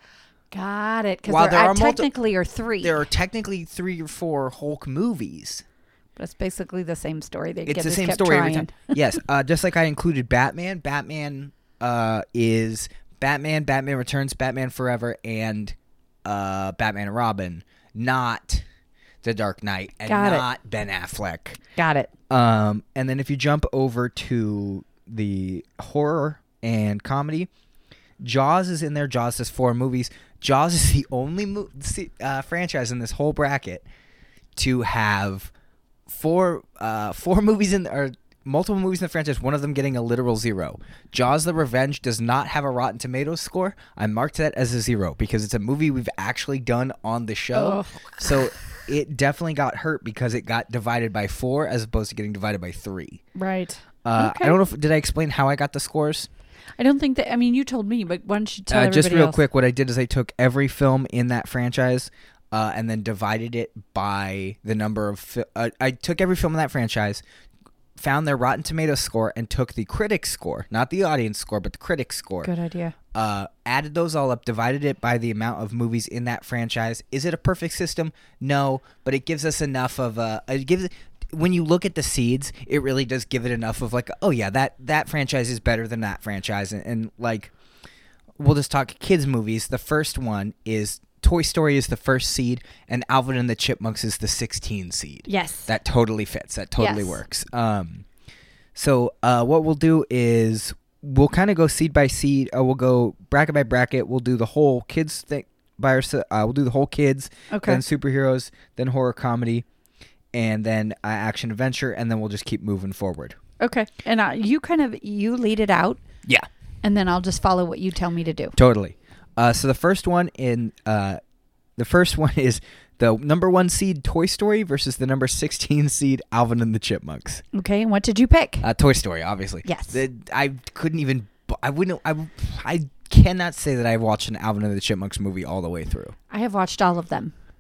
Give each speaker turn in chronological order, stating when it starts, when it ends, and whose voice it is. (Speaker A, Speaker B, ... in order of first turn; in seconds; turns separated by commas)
Speaker A: 0.5-3.0, Speaker B: 1.3-2.1, Speaker B: 2.8-5.7, Speaker A: 6.2-9.0, Speaker B: 7.7-18.6, Speaker B: 19.2-21.6, Speaker A: 20.1-20.5, Speaker A: 21.8-22.1, Speaker B: 22.3-27.5, Speaker B: 28.2-33.9, Speaker B: 34.6-35.5, Speaker B: 36.1-53.2, Speaker A: 47.5-48.3, Speaker A: 53.4-54.6, Speaker B: 54.0-56.3, Speaker A: 56.8-59.4, Speaker B: 58.7-67.2, Speaker B: 68.0-72.5, Speaker A: 72.4-73.0, Speaker B: 73.1-87.5, Speaker B: 88.4-98.0, Speaker A: 95.3-95.7, Speaker A: 96.8-97.2, Speaker B: 98.8-109.7, Speaker A: 107.5-107.8, Speaker B: 110.3-113.4, Speaker A: 113.6-116.0, Speaker A: 116.8-118.5, Speaker B: 118.6-121.2, Speaker B: 121.8-127.4, Speaker A: 127.5-128.7, Speaker B: 128.6-136.2, Speaker A: 129.7-130.0, Speaker A: 136.3-137.3